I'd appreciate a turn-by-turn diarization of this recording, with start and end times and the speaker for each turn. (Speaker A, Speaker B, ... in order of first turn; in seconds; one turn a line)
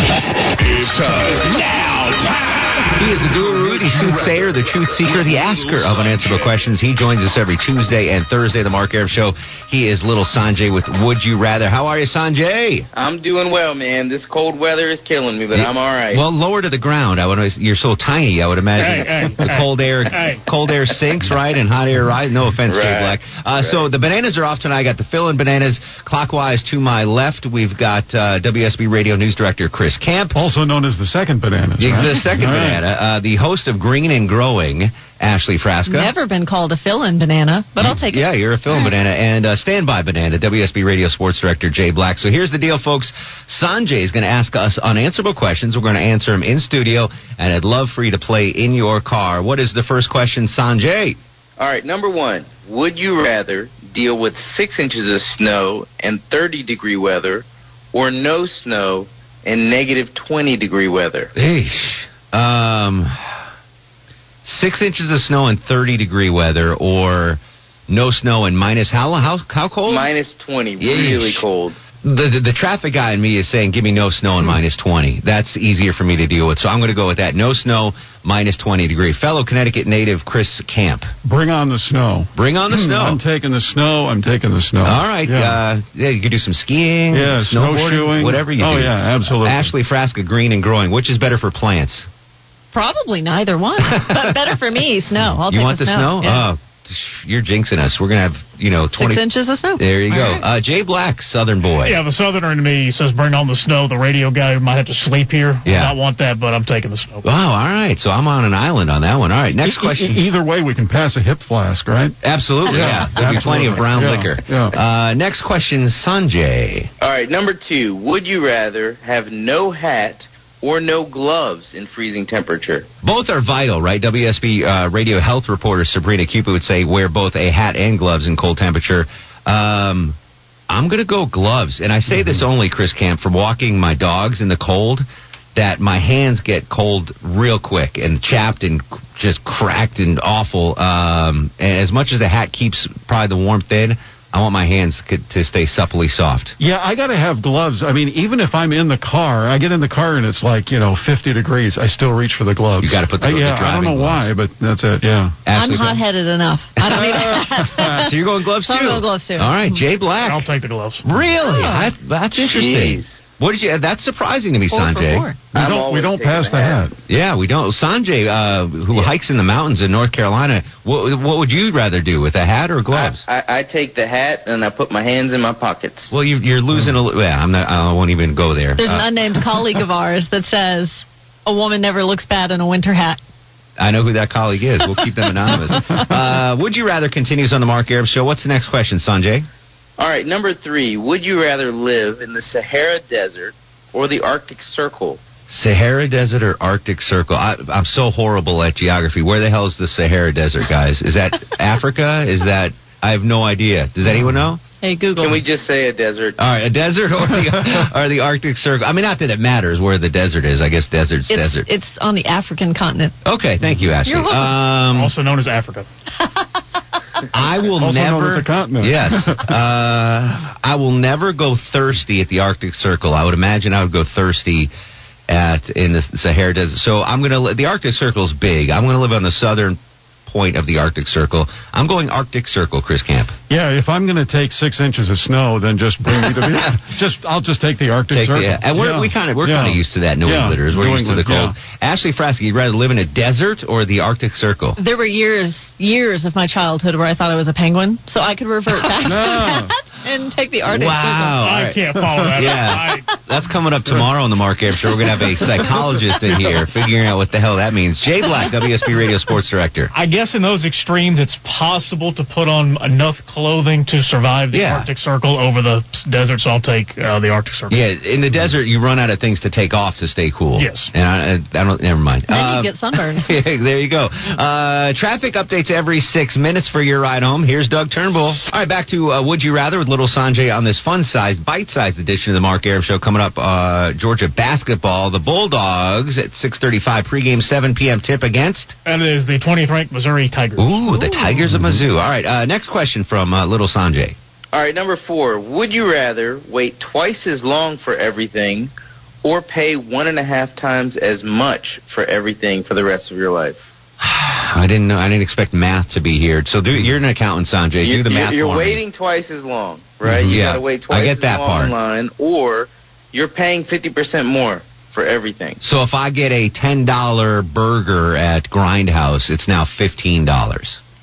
Speaker A: 0.7-1.8
Speaker A: 2.8-12.9
Speaker B: 12.9-16.2
Speaker A: 15.5-30.4
Speaker C: 18.8-20.4
Speaker B: 22.6-23.9
Speaker D: 30.3-32.8
Speaker A: 31.8-36.1
Speaker E: 35.9-38.9
Speaker A: 37.8-51.2
Speaker B: 51.6-61.3
Speaker A: 61.4-63.1
Speaker A: 64.5-70.1
Speaker B: 69.9-71.9
Speaker A: 70.8-81.1
Speaker D: 81.2-85.6
Speaker A: 82.4-83.2
Speaker A: 84.8-92.1
Speaker D: 87.1-89.7
Speaker E: 92.7-96.5
Speaker A: 93.9-94.6
Speaker A: 95.5-102.0
Speaker E: 98.9-100.4
Speaker C: 101.8-107.2
Speaker A: 105.7-106.0
Speaker A: 107.2-110.2
Speaker D: 109.6-114.8
Speaker A: 112.2-116.9
Speaker B: 117.0-122.9
Speaker A: 123.0-130.2
Speaker A: 130.7-146.6
Speaker D: 146.6-155.4
Speaker A: 152.8-154.3
Speaker A: 155.5-156.0
Speaker E: 155.5-159.8
Speaker A: 156.8-157.2
Speaker D: 157.1-157.9
Speaker A: 157.9-160.5
Speaker C: 160.2-161.5
Speaker A: 161.1-165.3
Speaker E: 161.4-161.9
Speaker B: 162.5-163.2
Speaker E: 164.7-165.5
Speaker D: 165.5-166.9
Speaker B: 165.5-166.8
Speaker A: 167.1-173.2
Speaker B: 172.9-176.1
Speaker A: 176.1-179.8
Speaker E: 178.8-183.2
Speaker A: 183.8-189.5
Speaker B: 190.0-195.2
Speaker A: 195.5-204.7
Speaker D: 204.1-204.5
Speaker E: 204.8-205.4
Speaker B: 205.2-206.4
Speaker A: 206.4-211.7
Speaker E: 211.3-213.2
Speaker A: 213.2-215.1
Speaker D: 213.6-213.9
Speaker E: 214.0-214.6
Speaker C: 214.9-215.9
Speaker A: 217.3-224.7
Speaker D: 217.8-219.6
Speaker A: 225.3-233.3
Speaker D: 233.5-241.6
Speaker A: 236.2-236.5
Speaker A: 238.1-244.8
Speaker E: 244.8-251.4
Speaker D: 249.0-249.7
Speaker A: 250.7-251.8
Speaker C: 251.4-253.1
Speaker A: 252.4-259.9
Speaker C: 259.9-267.8
Speaker A: 264.5-264.9
Speaker A: 267.7-288.8
Speaker C: 270.6-270.9
Speaker E: 272.3-273.4
Speaker C: 288.9-291.2
Speaker A: 290.6-294.2
Speaker B: 294.5-303.6
Speaker A: 304.0-308.8
Speaker B: 307.8-315.6
Speaker A: 310.1-311.7
Speaker A: 315.6-320.8